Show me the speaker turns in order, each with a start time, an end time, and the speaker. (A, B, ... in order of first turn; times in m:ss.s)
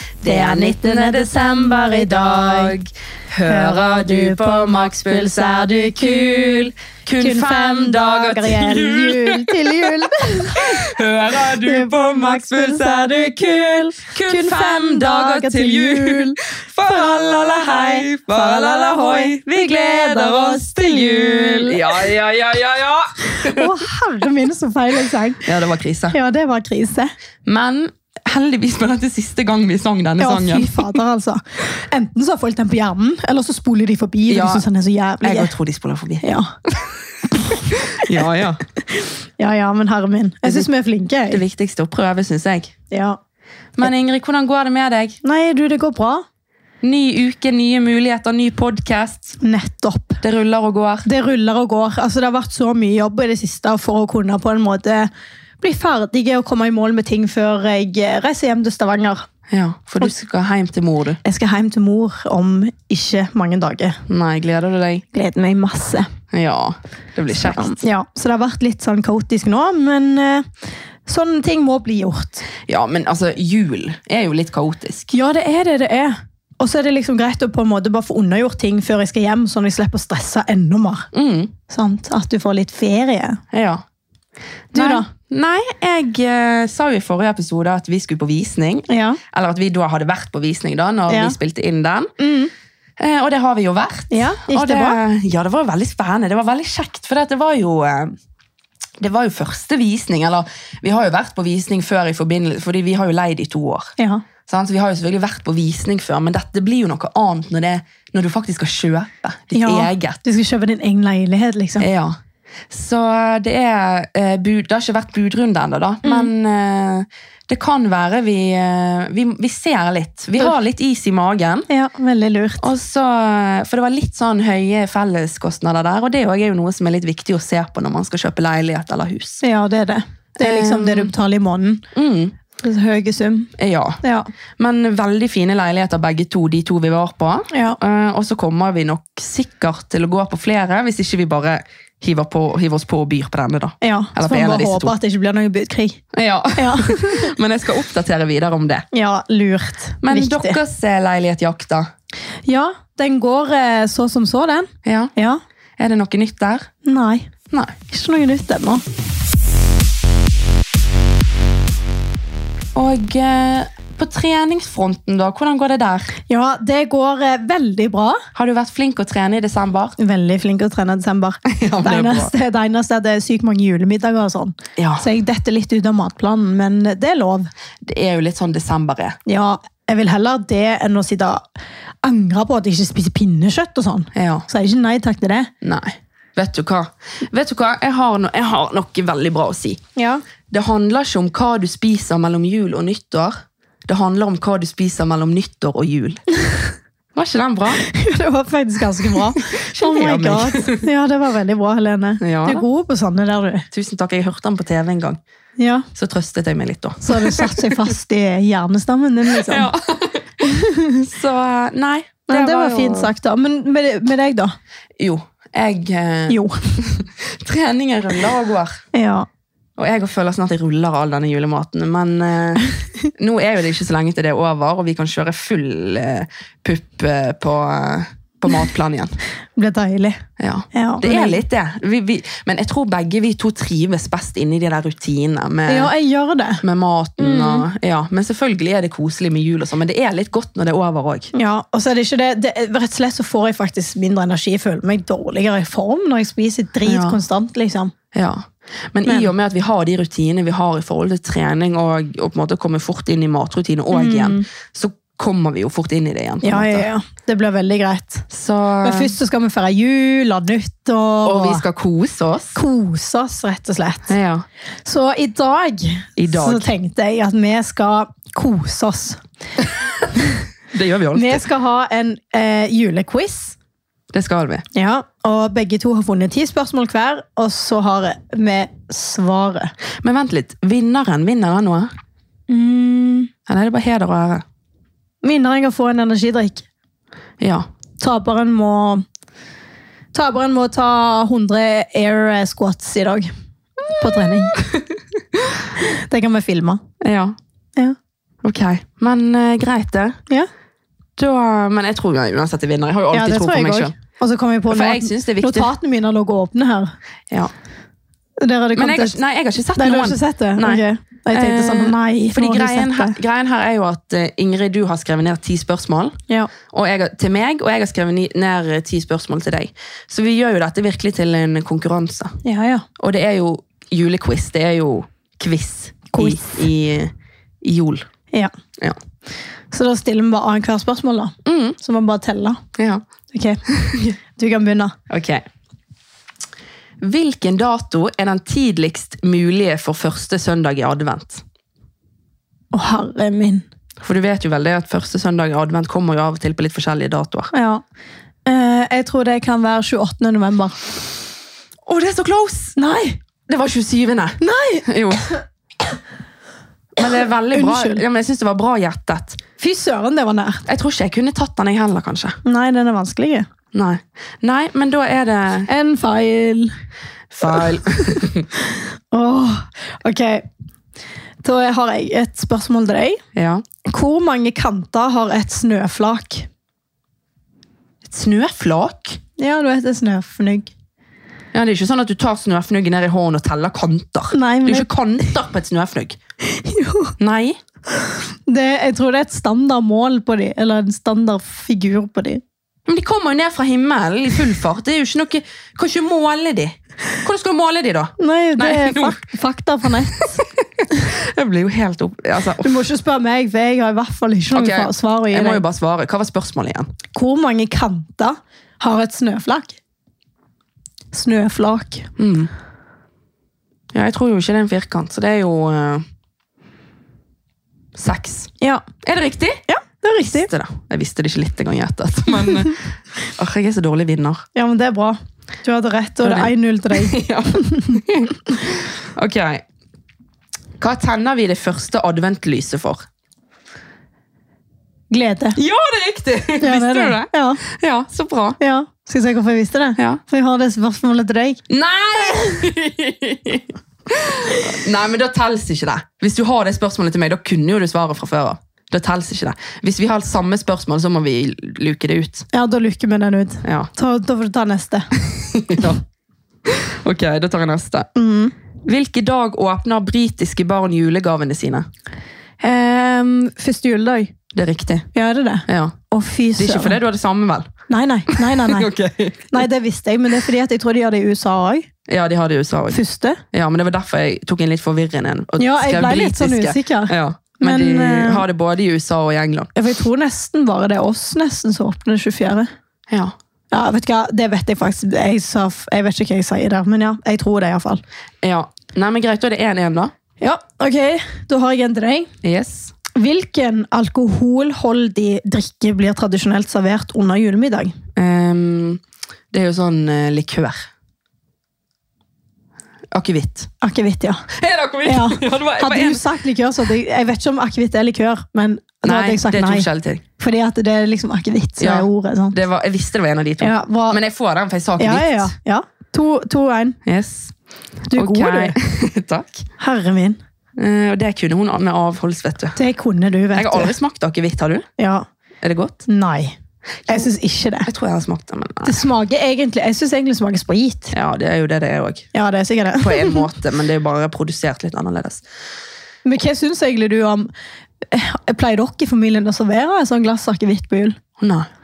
0:00.2-0:23.9 A
0:01.6-0:02.7 B
0:03.4-0:06.3 B
0:07.2-0:22.0 B
0:23.2-0:25.5 B
0:25.4-0:26.2 A
0:26.1-0:27.1 B
0:27.4-0:31.0 A
0:30.2-0:35.5 B
0:34.3-0:34.6 A
0:35.2-0:36.2 A
0:36.2-0:36.5 B
0:37.4-0:38.2 B
0:37.5-0:38.6 A
0:38.8-0:41.4 B
0:41.3-0:42.7 A
0:42.9-0:43.2 B
0:43.8-0:45.2 A
0:45.2-0:46.2 B
0:46.8-0:49.4 A
0:49.4-0:50.2 B
0:50.2-0:51.1 A
0:51.0-0:55.1 B
0:55.6-0:59.2 B
0:59.5-1:01.2 A
1:01.2-1:04.0 B
1:04.1-1:05.0 A
1:05.1-1:06.1 B
1:06.3-1:07.8 A
1:07.3-1:10.5 B
1:11.0-1:12.5 B
1:12.6-1:15.1 A
1:15.1-1:21.1 B
1:21.1-1:21.5 A
1:21.7-1:23.4 B
1:23.5-1:23.8 A
1:24.7-1:32.1 A
1:24.7-1:25.1 B
1:28.9-1:29.2 B
1:31.1-1:31.4 B
1:32.2-1:32.5 B
1:33.0-1:38.1 A
1:34.1-1:35.0 B
1:39.0-1:43.9 A
1:44.0-1:44.2 B
1:44.5-1:50.2 A
1:49.5-1:51.9 B
1:51.8-1:52.2 A
1:52.7-2:01.7 A
1:56.0-1:56.3 B
2:01.7-2:02.7 B
2:02.6-2:09.4 A
2:09.4-2:11.9 B
2:10.4-2:11.1 A
2:11.9-2:12.4 A
2:12.6-2:14.3 B
2:13.6-2:14.0 A
2:14.6-2:24.9 A
2:17.5-2:17.8 B
2:23.8-2:26.0 B
2:26.1-2:28.9 A
2:26.5-2:27.3 B
2:28.9-2:30.6 B
2:30.0-2:31.9 A
2:32.4-2:35.4 B
2:34.8-2:35.1 A
2:35.8-2:36.7 A
2:36.8-2:37.3 B
2:37.5-2:37.8 A
2:37.9-2:38.8 B
2:42.7-2:46.1 A
2:46.3-2:48.2 B
2:48.3-2:49.9 A
2:50.0-2:57.5 B
2:51.5-2:52.3 A
2:54.8-2:55.0 A
2:57.8-2:59.2 A
2:59.2-3:01.4 B
3:02.0-3:05.5 B
3:04.1-3:04.4 A
3:05.6-3:09.8 A
3:10.0-3:10.2 B
3:10.5-3:16.2 A
3:17.1-3:17.8 A
3:17.7-3:23.7 B
3:19.0-3:20.8 A
3:22.2-3:22.6 A
3:23.7-3:25.2 A
3:25.6-3:25.9 B
3:25.9-3:27.9 A
3:27.0-3:29.7 B
3:29.3-3:30.5 A
3:30.4-3:31.1 B
3:31.0-3:33.1 A
3:32.3-3:34.5 B
3:35.0-3:38.8 A
3:36.3-3:36.8 B
3:38.9-3:39.3 B
3:39.8-3:49.1 A
3:49.6-3:51.4 B
3:50.4-3:55.9 A
3:55.7-3:56.6 B
3:56.6-4:01.3 A
3:57.2-3:57.6 B
4:01.3-4:07.9 B
4:06.8-4:07.2 A
4:08.1-4:16.8 A
4:09.0-4:09.3 B
4:13.9-4:14.5 B
4:16.4-4:18.3 B
4:18.3-4:19.1 A
4:18.8-4:21.6 B
4:21.2-4:22.6 A
4:22.5-4:24.1 B
4:24.1-4:24.4 A
4:24.8-4:29.2 B
4:26.2-4:26.7 A
4:30.7-4:31.4 A
4:31.1-4:33.6 B
4:34.1-4:34.6 A
4:34.7-4:39.7 B
4:40.0-4:41.9 A
4:42.5-4:43.3 B
4:43.5-4:44.4 A
4:45.2-4:46.6 B
4:47.4-4:47.7 A
4:48.0-4:49.0 B
4:50.1-4:53.3 B
4:53.9-4:54.6 B
4:54.0-4:55.6 A
4:55.8-4:56.8 B
4:57.0-4:57.4 A
4:58.4-5:00.2 A
5:01.2-5:03.9 A
5:03.1-5:06.9 B
5:04.7-5:05.7 A
5:08.4-5:09.2 B
5:08.7-5:22.3 A
5:09.8-5:13.2 B
5:22.4-5:22.8 B
5:23.0-5:28.0 A
5:26.1-5:26.6 B
5:29.7-5:32.6 B
5:31.4-5:31.8 A
5:32.8-5:33.0 A
5:33.3-5:33.6 B
5:33.6-5:34.2 A
5:34.3-5:34.9 B
5:35.1-5:35.4 A
5:37.0-5:41.4 A
5:42.7-5:43.6 B
5:44.0-5:47.5 A
5:47.5-5:47.8 B
5:48.4-5:50.9 B
5:51.8-5:52.7 A
5:52.8-5:53.2 B
5:53.4-5:55.3 A
5:54.4-5:54.9 B
5:57.0-5:59.4 A
5:57.5-5:58.0 B
5:59.6-6:00.6 B
6:00.6-6:02.4 A
6:02.4-6:03.5 B
6:03.7-6:05.7 A
6:05.6-6:06.8 B
6:07.3-6:08.5 A
6:07.4-6:10.4 B
6:11.4-6:13.2 B
6:13.3-6:13.6 A
6:13.8-6:16.5 B
6:18.0-6:19.2 A
6:19.4-6:20.7 B
6:21.5-6:26.2 A
6:24.3-6:24.9 B
6:26.4-6:27.1 B
6:27.2-6:27.6 A
6:28.0-6:32.4 B
6:32.8-6:39.2 A
6:38.2-6:40.4 B
6:40.1-6:42.8 A
6:42.6-6:45.6 B
6:44.5-6:46.9 A
6:47.1-6:49.8 B
6:51.1-6:52.1 B
6:52.2-6:52.5 A
6:53.9-6:56.0 A
6:57.9-6:58.5 A
6:58.6-6:58.8 B
6:59.0-6:59.6 A
6:59.7-7:00.5 B
7:00.3-7:04.4 A
7:04.5-7:08.0 B
7:06.2-7:09.6 A
7:10.8-7:13.0 A
7:15.1-7:15.6 B
7:15.6-7:18.6 A
7:16.6-7:17.6 B
7:18.6-7:21.6 B
7:21.7-7:32.5 A
7:32.5-7:35.1 B
7:33.6-7:33.9 A
7:35.1-7:36.0 A
7:36.6-7:38.1 A
7:38.1-7:38.5 B
7:38.8-7:41.9 A
7:42.6-7:44.3 B
7:44.5-7:45.1 A
7:45.1-7:47.0 B
7:45.7-7:45.9 A
7:46.6-7:47.7 A
7:47.9-7:48.9 B
7:48.3-7:49.5 A
7:49.5-7:51.9 B
7:52.1-7:53.0 A
7:52.9-7:53.4 B
7:53.5-7:59.7 A
7:55.6-7:58.4 B
7:59.7-8:02.7 B
8:03.1-8:03.3 A
8:03.7-8:08.0 B
8:08.4-8:10.1 A
8:10.4-8:12.3 B
8:12.4-8:12.9 A
8:13.1-8:18.0 B
8:18.1-8:20.8 A
8:23.1-8:23.7 A
8:23.8-8:24.4 B
8:24.5-8:26.2 A
8:25.0-8:32.6 B
8:29.0-8:30.2 A
8:31.8-8:35.5 A
8:33.6-8:34.2 B
8:35.0-8:37.0 B
8:37.0-8:37.5 A
8:38.1-8:38.8 B
8:38.1-8:39.6 A
8:39.8-8:40.4 B
8:40.8-8:42.8 A
8:42.8-8:43.9 B
8:43.5-8:44.9 A
8:45.0-8:45.2 B
8:45.6-8:46.0 A
8:46.1-8:47.9 B
8:47.8-8:49.0 A
8:48.8-8:51.1 B
8:51.1-8:52.3 A
8:52.3-8:53.4 B
8:53.0-8:55.4 A
8:56.2-8:57.5 B
8:58.1-9:01.2 B
9:01.4-9:01.7 A